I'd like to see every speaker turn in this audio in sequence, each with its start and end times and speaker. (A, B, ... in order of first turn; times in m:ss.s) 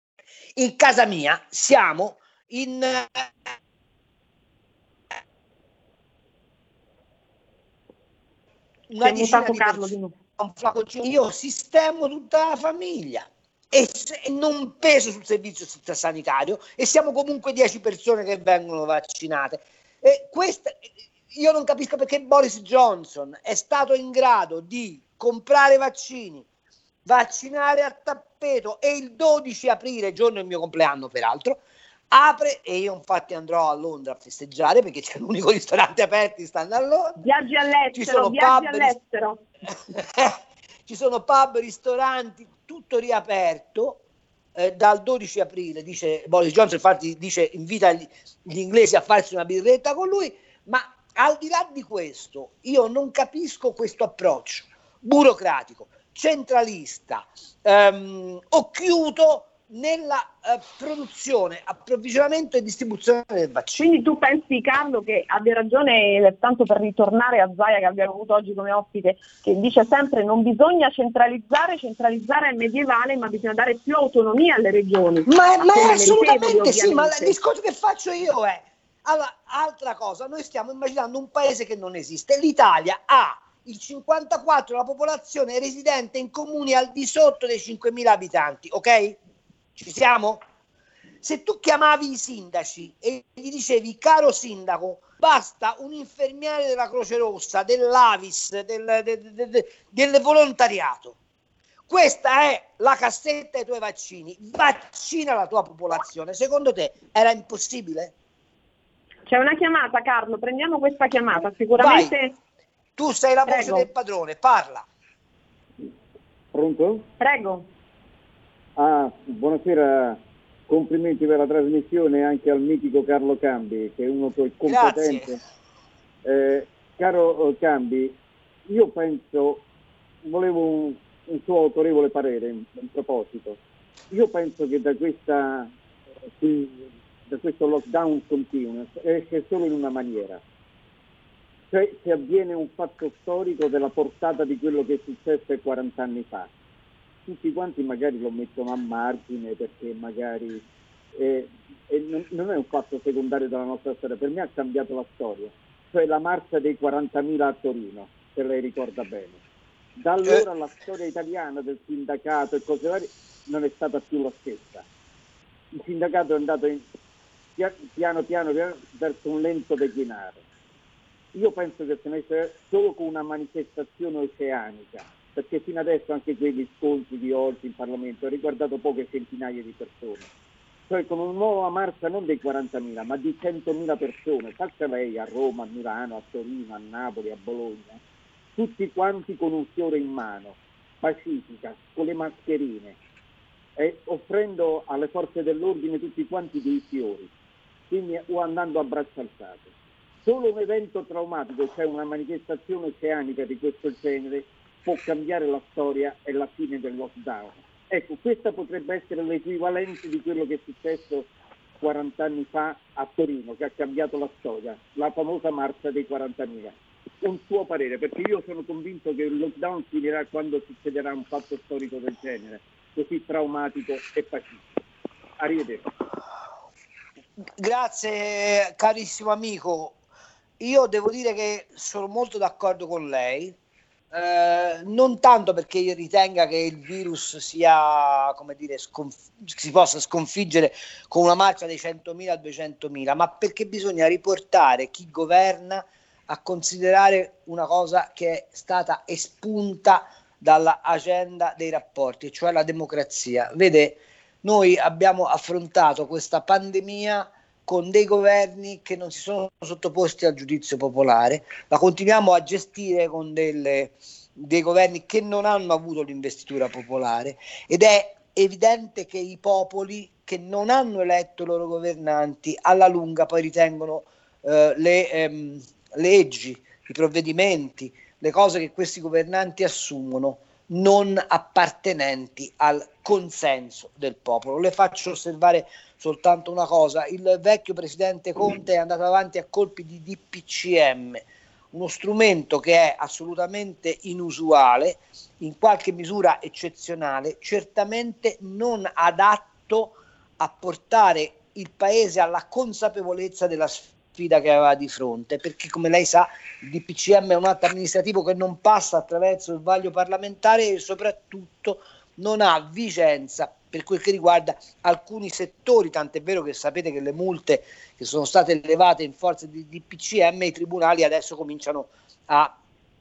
0:00.5-0:03.3 A
0:08.9-0:26.4 A
0:09.0-0:10.1 B
0:27.0-0:31.6 A
0:32.1-0:37.2 A
0:37.2-0:39.4 B
0:37.9-0:38.9 A
0:39.7-0:44.0 A
0:44.5-1:03.8 A
1:03.7-1:17.3 B
1:15.2-1:29.2 A
1:29.8-1:30.4 A
1:31.2-1:41.2 A
1:41.9-1:48.1 A
1:49.3-1:52.3 B
1:51.8-1:52.1 A
1:53.0-1:54.8 A
1:53.4-1:53.9 B
1:56.5-1:57.0 C
1:57.2-1:57.7 B
1:58.8-2:05.4 C
2:04.7-2:05.3 A
2:06.2-2:08.1 C
2:08.7-2:09.6 C
2:10.2-2:13.6 C
2:14.1-2:15.7 C
2:16.4-2:20.4 C
2:21.7-2:26.5 C
2:27.2-2:30.6 C
2:31.2-2:39.4 C
2:40.0-2:44.8 C
2:45.7-2:46.9 C
2:47.6-2:50.4 C
2:51.3-3:00.3 C
3:00.9-3:08.0 C
3:08.6-3:13.0 C
3:13.8-3:17.3 C
3:17.9-3:19.7 C
3:20.2-3:44.6 C
3:45.4-3:45.9 C
3:47.6-3:50.0 A
3:50.6-3:53.5 A
3:54.1-5:22.6 A